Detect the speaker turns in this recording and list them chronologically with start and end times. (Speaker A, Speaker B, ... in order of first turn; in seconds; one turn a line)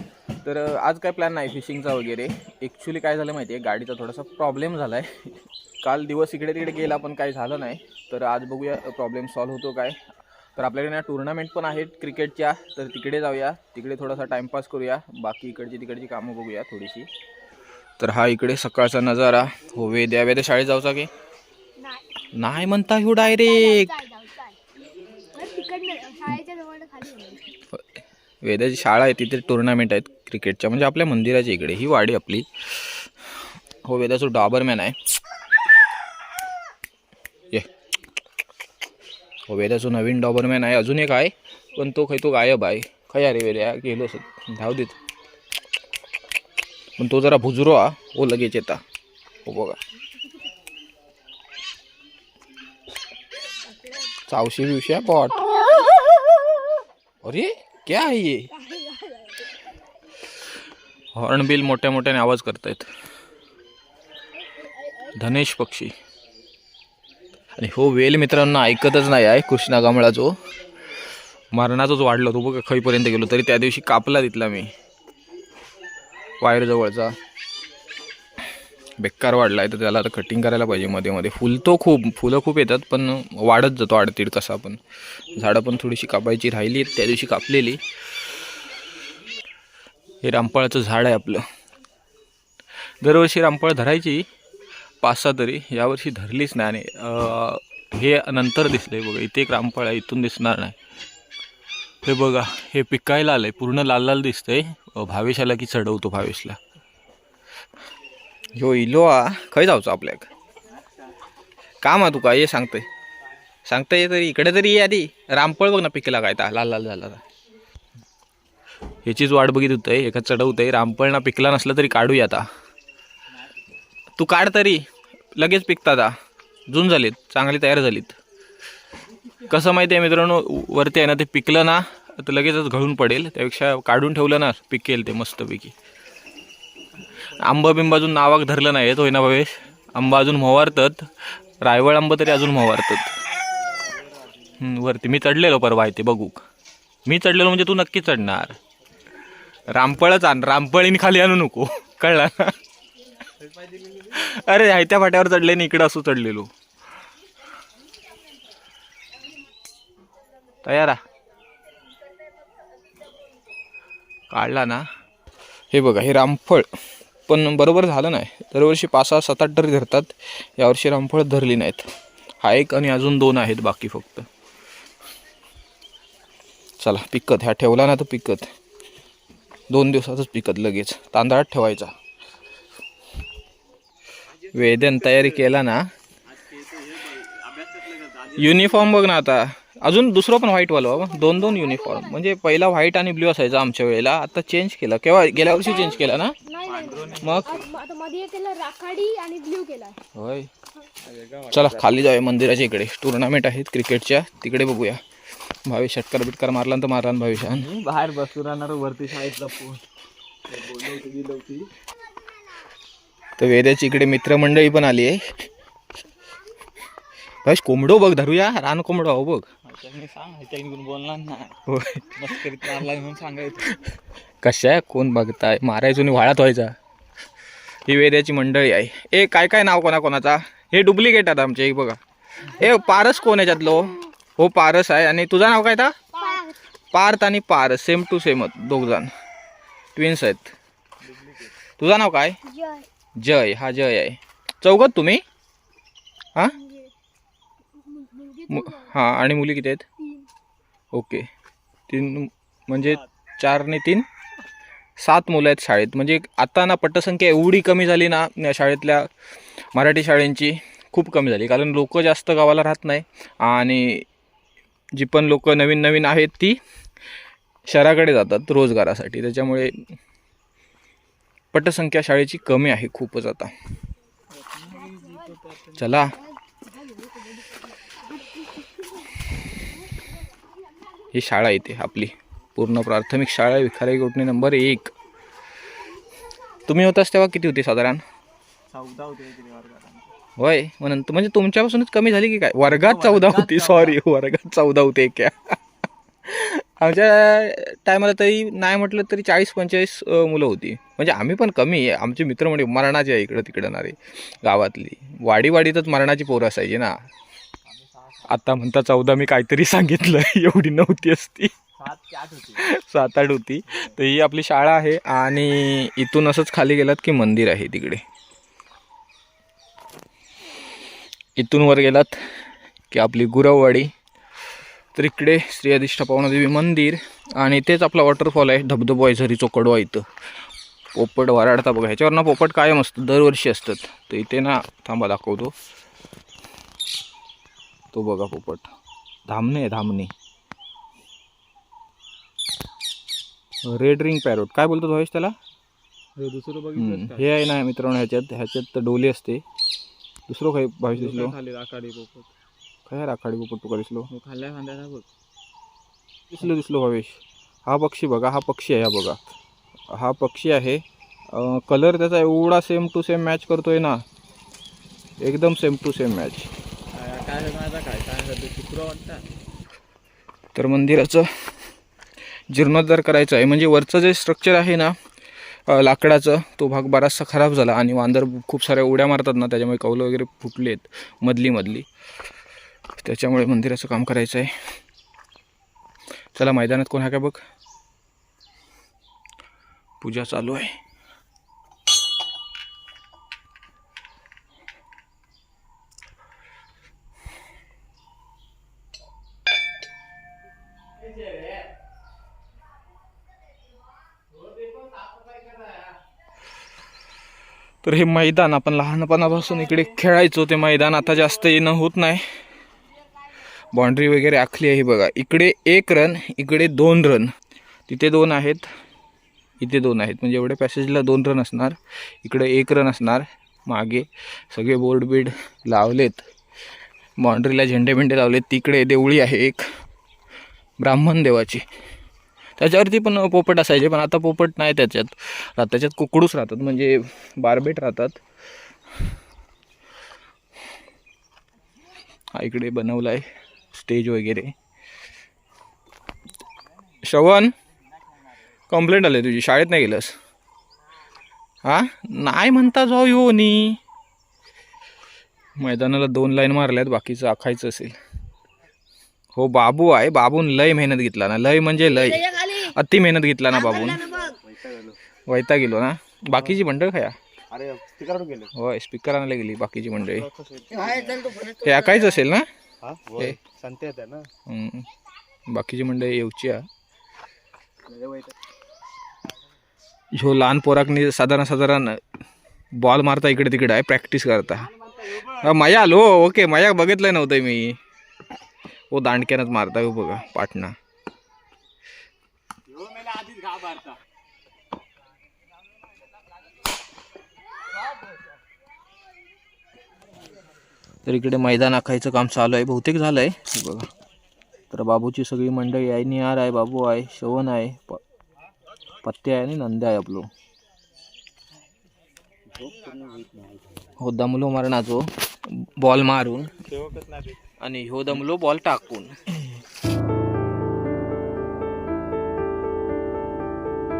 Speaker A: 0.4-5.3
Speaker A: 5.8-10.0
Speaker A: 10.6-17.1
Speaker A: 18.0-21.1
Speaker B: 21.8-22.1
Speaker A: 22.3-24.0
Speaker B: 23.1-24.6
Speaker B: 25.3-27.5
Speaker A: 28.4-33.1
Speaker A: 33.8-35.0
Speaker A: 39.5-45.0
Speaker A: 47.0-48.8
Speaker A: 49.4-49.8
Speaker A: 54.3-56.5
Speaker A: 57.2-58.5
Speaker B: 58.7-59.3
Speaker A: 61.1-62.9
Speaker A: 65.1-65.9
Speaker A: 67.6-70.4
Speaker A: 71.5-74.7
Speaker A: 76.4-77.1
Speaker A: 79.0-84.8
Speaker A: 85.3-87.8
Speaker A: 90.2-91.4
Speaker A: 93.0-94.2
Speaker A: 95.0-100.8
Speaker A: 102.0-106.6
Speaker A: 108.5-110.3
Speaker A: 111.8-112.9
Speaker A: 113.6-117.2
Speaker A: 119.0-122.5
Speaker A: 124.2-126.1
Speaker A: 126.7-128.2
Speaker A: 129.4-135.7
Speaker A: 137.3-141.1
Speaker A: 141.6-143.1
Speaker A: 144.5-146.4
Speaker A: 147.1-148.6
Speaker A: 149.7-152.6
Speaker A: 153.9-156.5
Speaker A: 160.6-161.0
Speaker A: 164.3-164.8
Speaker A: 165.7-166.7
Speaker A: 167.3-171.9
Speaker A: 172.4-174.3
Speaker A: 176.8-178.5
Speaker A: 179.7-181.9
Speaker A: 184.5-185.9
Speaker C: 186.5-188.4
Speaker A: 188.2-196.3
Speaker B: 191.3-192.1
Speaker B: 196.4-200.0
Speaker C: 196.7-197.4
Speaker A: 197.2-197.6
Speaker A: 200.1-200.5
Speaker C: 201.0-202.0
Speaker A: 201.5-205.0
Speaker A: 205.6-207.7
Speaker C: 207.5-209.8
Speaker C: 210.5-211.7
Speaker A: 213.4-215.2
Speaker A: 217.4-219.5
Speaker C: 219.7-221.5
Speaker A: 221.7-222.9
Speaker C: 222.2-223.7
Speaker A: 224.4-226.7
Speaker A: 227.9-236.0
Speaker B: 236.2-236.5
Speaker A: 236.9-239.1
Speaker A: 239.9-240.5
Speaker C: 241.0-241.5
Speaker A: 241.8-242.4
Speaker B: 242.4-242.8
Speaker A: 243.2-245.2
Speaker B: 246.6-246.9
Speaker B: 247.7-248.9
Speaker A: 248.5-249.8
Speaker A: 250.9-251.3
Speaker A: 251.9-254.1
Speaker A: 255.0-259.1
Speaker A: 259.7-264.1
Speaker A: 264.9-266.6
Speaker A: 267.7-269.8
Speaker A: 271.5-273.5
Speaker C: 274.4-275.7
Speaker B: 274.8-275.3
Speaker A: 275.7-276.2
Speaker B: 276.4-279.2
Speaker A: 281.1-284.9
Speaker A: 286.6-288.0
Speaker C: 288.7-290.1
Speaker A: 290.4-295.6
Speaker C: 292.7-293.9
Speaker A: 296.2-306.9
Speaker C: 307.7-308.2
Speaker A: 308.2-311.5
Speaker C: 311.8-312.6
Speaker A: 312.5-318.0
Speaker A: 321.4-322.1
Speaker A: 322.9-323.9
Speaker A: 324.9-330.1
Speaker A: 330.9-335.5
Speaker A: 337.9-338.7
Speaker A: 339.3-340.1
Speaker A: 343.6-345.4
Speaker C: 346.2-347.3
Speaker A: 346.8-349.4
Speaker A: 350.3-351.3
Speaker C: 350.9-352.3
Speaker A: 352.9-354.1
Speaker C: 354.1-355.1
Speaker A: 356.3-359.4
Speaker A: 359.9-364.0
Speaker A: 365.2-366.5
Speaker C: 366.9-369.2
Speaker A: 370.5-371.3
Speaker A: 372.5-374.9
Speaker A: 375.7-381.9
Speaker A: 383.0-384.5
Speaker A: 386.3-387.4
Speaker A: 390.0-390.8
Speaker A: 407.8-412.2
Speaker A: 413.7-417.3
Speaker A: 417.9-418.6
Speaker A: 419.6-426.2
Speaker A: 427.2-429.6
Speaker A: 430.8-431.6
Speaker A: 432.6-438.2
Speaker A: 442.3-444.5
Speaker A: 447.0-447.5
Speaker A: 448.7-450.1
Speaker A: 451.6-453.8
Speaker A: 455.6-458.0
Speaker A: 459.4-464.1
Speaker C: 464.5-464.9
Speaker A: 465.3-467.2
Speaker C: 467.6-468.5
Speaker A: 468.5-470.3
Speaker C: 470.3-471.3
Speaker A: 471.4-472.4
Speaker C: 472.9-474.2
Speaker A: 473.1-473.4
Speaker A: 474.5-474.9
Speaker A: 475.5-476.6
Speaker C: 477.9-478.3
Speaker A: 480.1-482.0
Speaker A: 482.8-487.8
Speaker A: 488.9-490.7
Speaker A: 501.0-503.9
Speaker A: 504.7-508.0
Speaker A: 509.0-510.2
Speaker C: 512.5-513.6
Speaker A: 514.0-515.0
Speaker A: 515.6-516.5
Speaker C: 516.7-517.3
Speaker A: 517.6-519.1